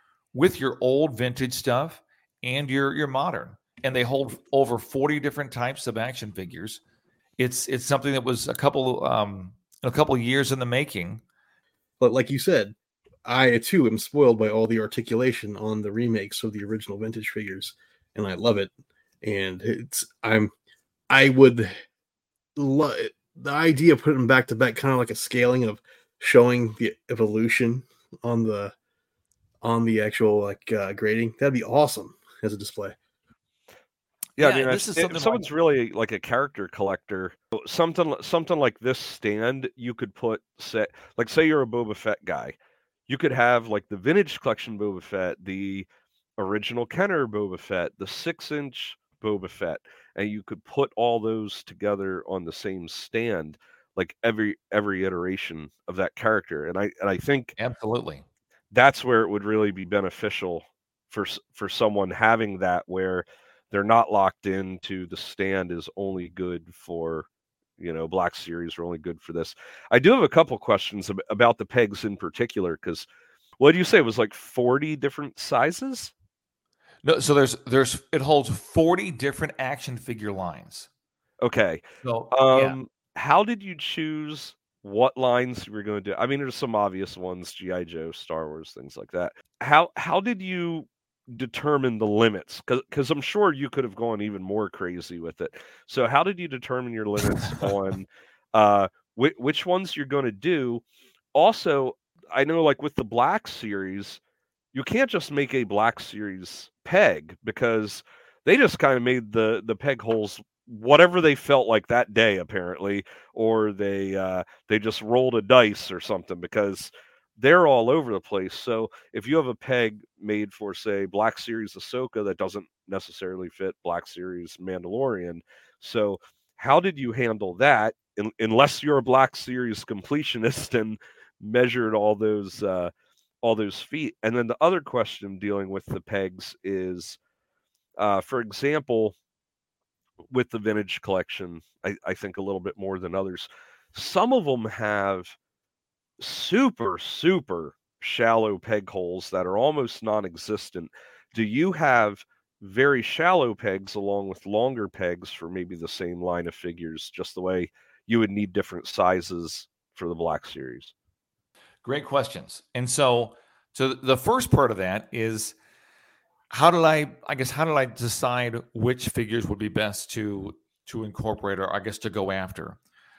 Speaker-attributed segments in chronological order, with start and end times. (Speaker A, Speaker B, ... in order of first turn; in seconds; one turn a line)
Speaker A: 0.3-6.8
Speaker A: 7.4-11.2
Speaker B: 12.0-18.7
Speaker B: 19.2-20.5
Speaker B: 21.1-21.7
Speaker B: 22.6-28.7
Speaker B: 29.6-33.0
Speaker A: 34.4-35.5
Speaker C: 34.4-42.6
Speaker C: 43.1-45.9
Speaker C: 46.4-57.6
Speaker A: 57.6-58.2
Speaker C: 58.7-67.3
Speaker C: 67.8-73.1
Speaker C: 73.6-76.1
Speaker A: 77.0-80.9
Speaker C: 81.4-100.8
Speaker A: 82.0-82.8
Speaker C: 101.3-104.2
Speaker C: 104.7-132.9
Speaker C: 133.4-137.2
Speaker C: 138.0-139.2
Speaker C: 140.3-145.4
Speaker C: 146.2-160.9
Speaker A: 161.8-165.6
Speaker A: 166.5-172.8